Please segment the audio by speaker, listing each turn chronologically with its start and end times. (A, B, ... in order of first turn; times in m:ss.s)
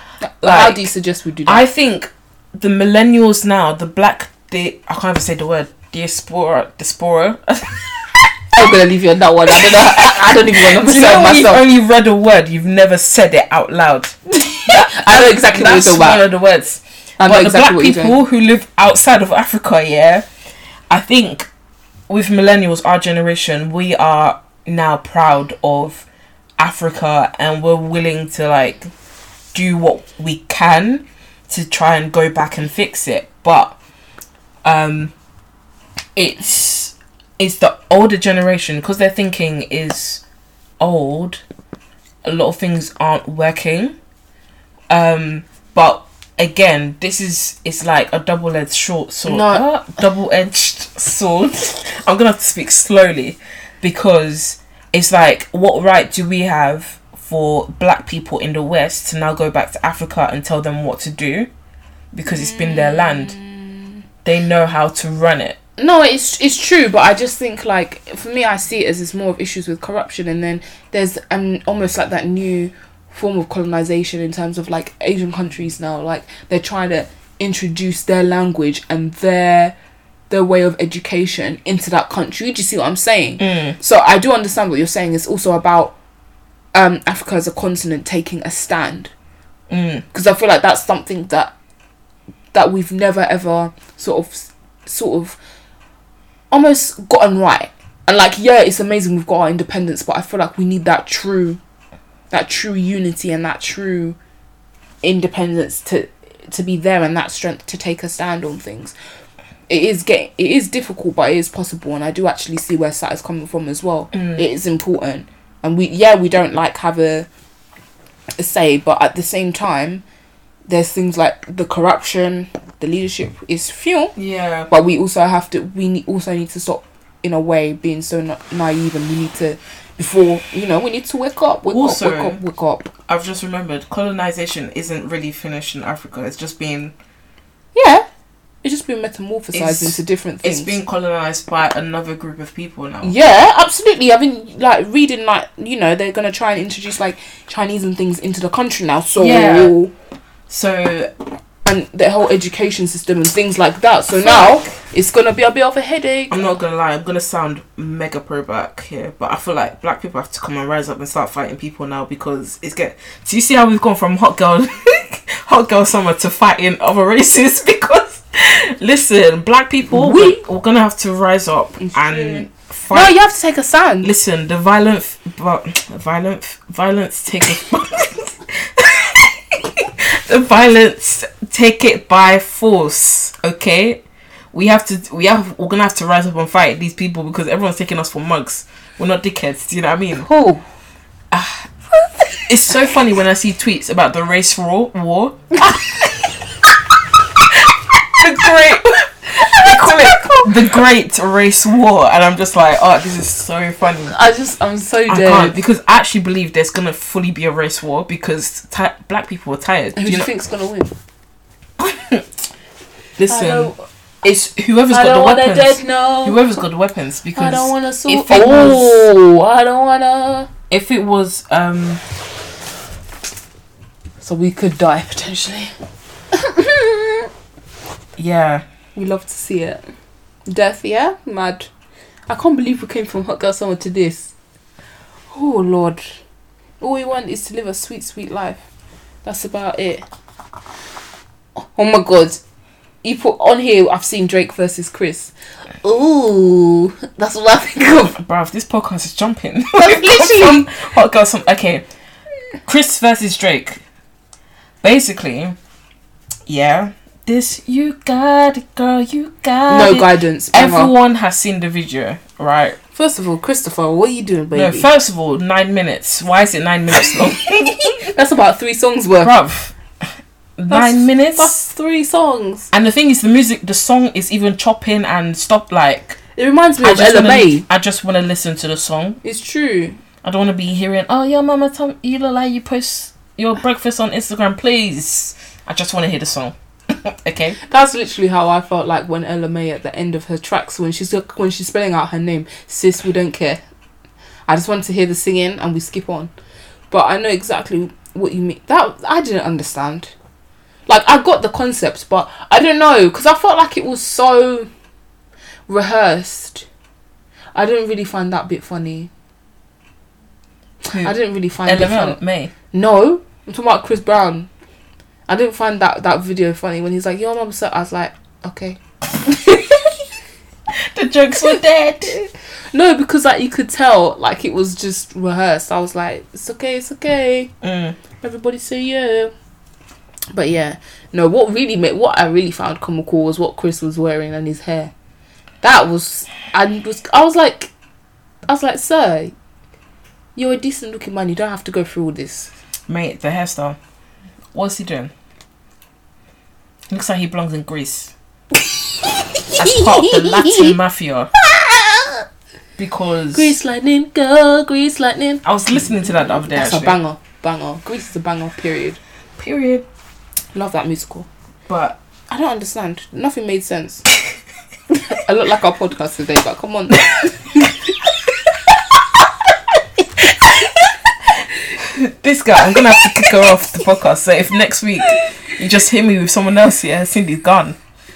0:00.2-0:01.6 A
0:00.4-0:00.9 B
0:01.4-0:08.3 B
0:08.5-0:11.6 A
0:09.5-0:20.2 B
0:14.4-0:16.2 A
0:17.2-0:18.2 A
0:20.9-0:21.5 B
0:22.1-0:26.0 B
0:26.6-0:28.9 B
0:29.5-0:33.8 B
0:34.6-0:35.1 B
0:36.2-0:40.2 B
0:40.8-0:41.4 B
0:42.2-0:43.9 B
0:44.9-1:01.5 B
0:49.2-0:49.6 A
1:02.1-1:03.4 B
1:02.2-1:03.9 A
1:04.2-1:05.6 B
1:05.8-1:19.8 A
1:20.3-1:25.9 A
1:23.4-1:23.8 B
1:26.7-1:29.1 A
1:29.7-1:30.0 B
1:30.1-1:31.5 A
1:32.5-1:35.4 A
1:36.5-1:41.6 A
1:42.3-1:44.2 A
1:45.0-1:48.9 A
1:49.7-1:57.3 A
1:54.1-1:54.4 B
1:58.4-2:00.0 A
2:00.7-2:04.2 A
2:04.2-2:04.7 B
2:04.7-2:12.9 A
2:11.7-2:12.4 B
2:13.1-2:16.9 B
2:17.7-2:18.0 A
2:18.6-2:20.8 A
2:19.5-2:23.1 B
2:23.0-2:29.9 A
2:29.2-2:29.7 B
2:30.5-2:31.1 B
2:31.6-2:36.5 A
2:34.2-2:34.7 B
2:36.3-2:53.1 B
2:49.9-2:50.4 A
2:51.8-2:54.1 A
2:54.0-3:10.3 B
3:10.2-3:10.6 A
3:11.3-3:11.7 B
3:12.3-3:12.7 A
3:12.5-3:15.6 B
3:15.5-3:16.2 A
3:18.1-3:24.2 B
3:18.4-3:20.8 A
3:24.1-3:25.6 A
3:25.1-3:30.3 B
3:30.0-3:30.9 A
3:31.8-3:32.4 B
3:33.2-3:33.7 B
3:33.3-3:33.8 A
3:34.2-3:39.1 B
3:34.9-3:36.4 A
3:37.3-3:40.5 A
3:40.7-3:42.0 B
3:44.2-3:45.7 A
3:46.3-3:47.3 A
3:48.2-3:48.6 B
3:48.9-3:49.8 A
3:50.5-3:51.7 A
3:52.3-3:54.3 A
3:55.3-3:56.2 A
3:56.8-3:58.6 A
3:59.2-4:00.0 A
4:01.6-4:02.4 A
4:03.0-4:08.2 A
4:08.1-4:11.8 B
4:09.7-4:10.7 A
4:12.6-4:13.8 B
4:14.8-4:15.6 B
4:16.5-4:22.8 B
4:19.7-4:20.9 A
4:22.9-4:24.9 A
4:24.5-4:28.0 B
4:27.0-4:29.3 A
4:29.2-4:29.8 B
4:30.6-4:31.5 B
4:30.7-4:32.7 A
4:32.7-4:36.2 B
4:36.4-4:37.6 A
4:36.8-4:39.2 B
4:39.2-4:40.0 A
4:40.2-4:47.6 B
4:47.6-4:53.6 A
4:54.5-4:56.3 A
4:56.9-5:00.1 A
5:00.9-5:04.7 A
5:05.7-5:06.6 A
5:07.5-5:09.1 A
5:10.8-5:12.2 A
5:10.9-5:11.1 B
5:11.6-5:12.5 B
5:12.7-5:14.5 A
5:15.3-5:19.9 A
5:20.7-5:22.2 B
5:22.1-5:27.5 A
5:27.6-5:28.0 B
5:28.2-5:29.3 A
5:30.3-5:34.9 A
5:35.6-5:37.7 A
5:38.5-5:39.3 A
5:40.4-5:42.5 A
5:42.9-5:43.8 B
5:44.5-5:45.1 B
5:46.9-5:48.1 B
5:49.2-5:50.7 A
5:49.6-5:51.3 B
5:51.4-5:52.2 A
5:52.8-5:53.5 B
5:53.3-5:59.0 A
5:55.4-5:57.0 B
5:59.4-5:59.8 B
6:00.5-6:01.3 A
6:01.7-6:02.0 B
6:02.3-6:04.1 A
6:04.9-6:07.8 A
6:10.2-6:10.5 B
6:11.8-6:17.8 B